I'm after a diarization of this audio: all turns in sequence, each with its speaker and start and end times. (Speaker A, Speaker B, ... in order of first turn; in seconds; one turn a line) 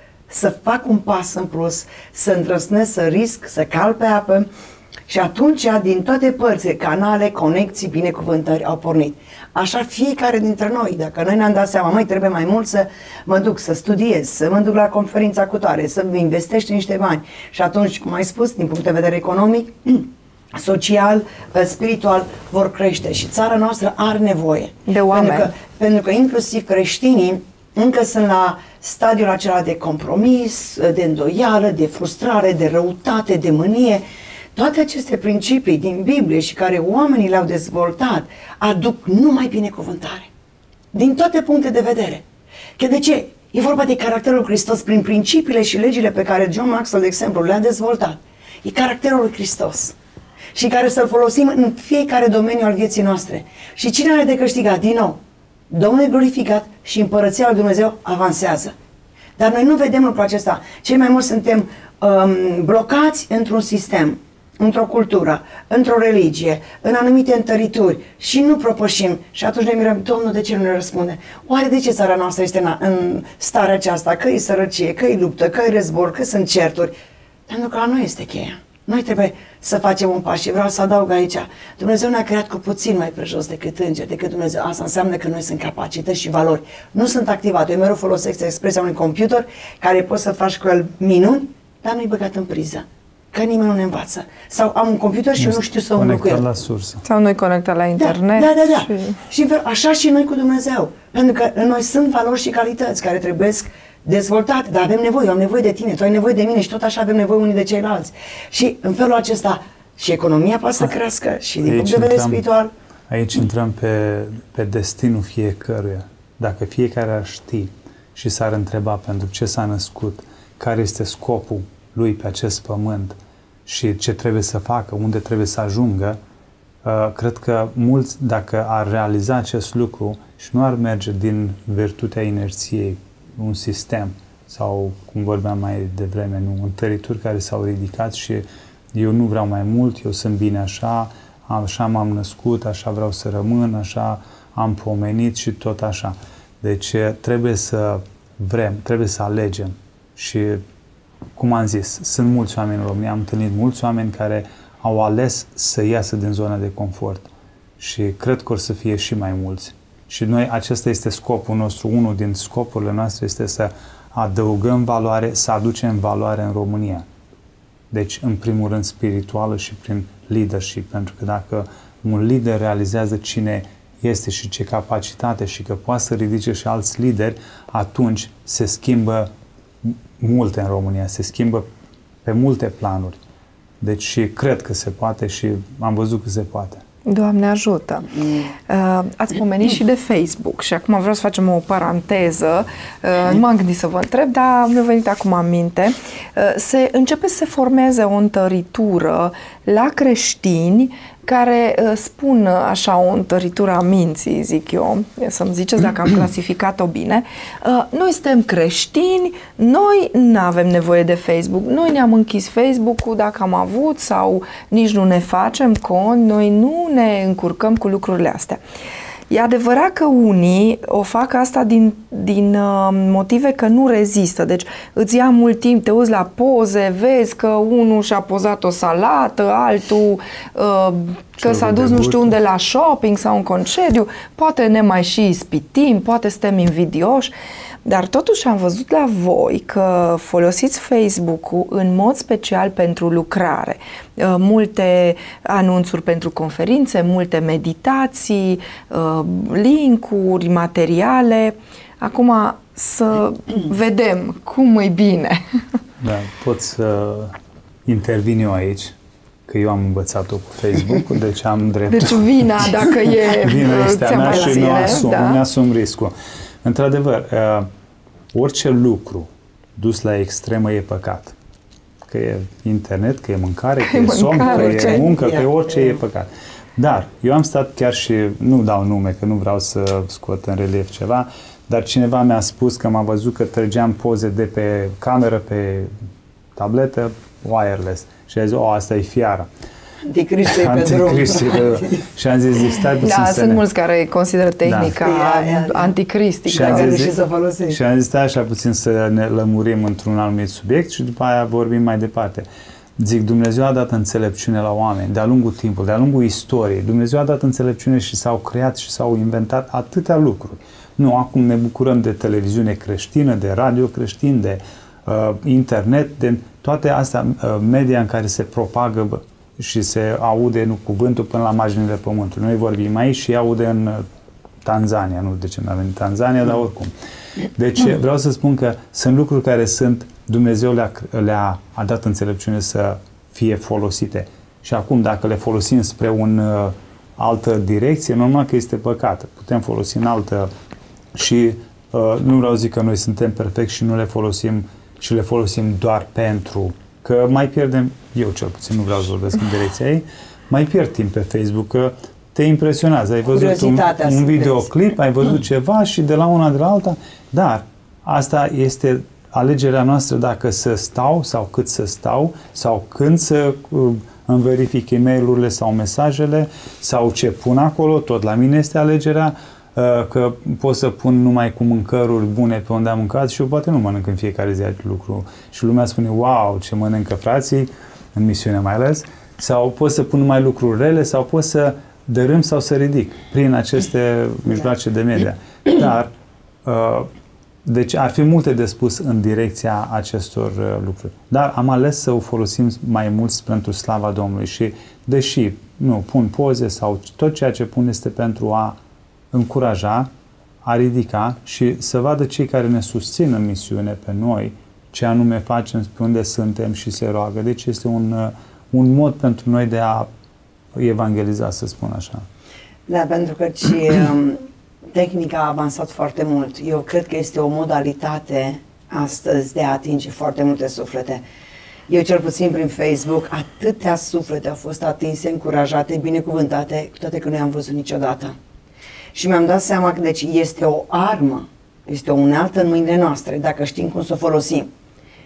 Speaker A: 0.3-4.5
Speaker A: 5.1-34.0
Speaker B: 24.9-25.5
Speaker A: 34.6-40.3
Speaker A: 40.9-42.2
Speaker A: 42.8-50.0
Speaker A: 50.5-55.2
Speaker A: 55.7-58.7
Speaker A: 59.4-76.9
Speaker A: 77.5-96.4
Speaker C: 95.4-97.0
Speaker B: 97.0-99.2
Speaker A: 98.0-112.7
Speaker C: 111.6-112.4
Speaker C: 113.1-126.2
Speaker C: 126.8-150.6
Speaker C: 151.4-167.1
Speaker C: 167.9-179.3
Speaker C: 179.8-181.7
Speaker C: 182.2-183.2
Speaker C: 183.8-186.8
Speaker B: 187.1-218.6
Speaker A: 188.2-188.5
Speaker B: 219.3-237.3
Speaker C: 231.4-232.4
Speaker B: 237.8-255.4
Speaker C: 256.0-258.9
Speaker C: 259.5-262.6
Speaker B: 261.9-265.4
Speaker C: 263.4-267.7
Speaker A: 264.1-265.0
Speaker C: 268.3-271.4
Speaker C: 272.0-285.9
Speaker B: 273.8-275.1
Speaker A: 274.4-276.0
Speaker C: 286.6-289.5
Speaker A: 290.1-292.0
Speaker C: 290.5-293.6
Speaker B: 293.0-296.9
Speaker C: 294.6-294.9
Speaker A: 295.0-295.9
Speaker A: 296.5-297.8
Speaker C: 296.5-297.1
Speaker C: 297.7-302.5
Speaker C: 303.0-324.0
Speaker C: 324.6-326.9
Speaker C: 327.6-340.5
Speaker C: 341.1-386.1
Speaker A: 353.3-354.7
Speaker C: 386.6-387.1
Speaker C: 387.6-398.8
Speaker C: 399.3-400.1
Speaker C: 400.6-410.1
Speaker C: 410.7-412.3
Speaker A: 412.9-421.2
Speaker A: 421.9-428.4
Speaker A: 429.1-434.7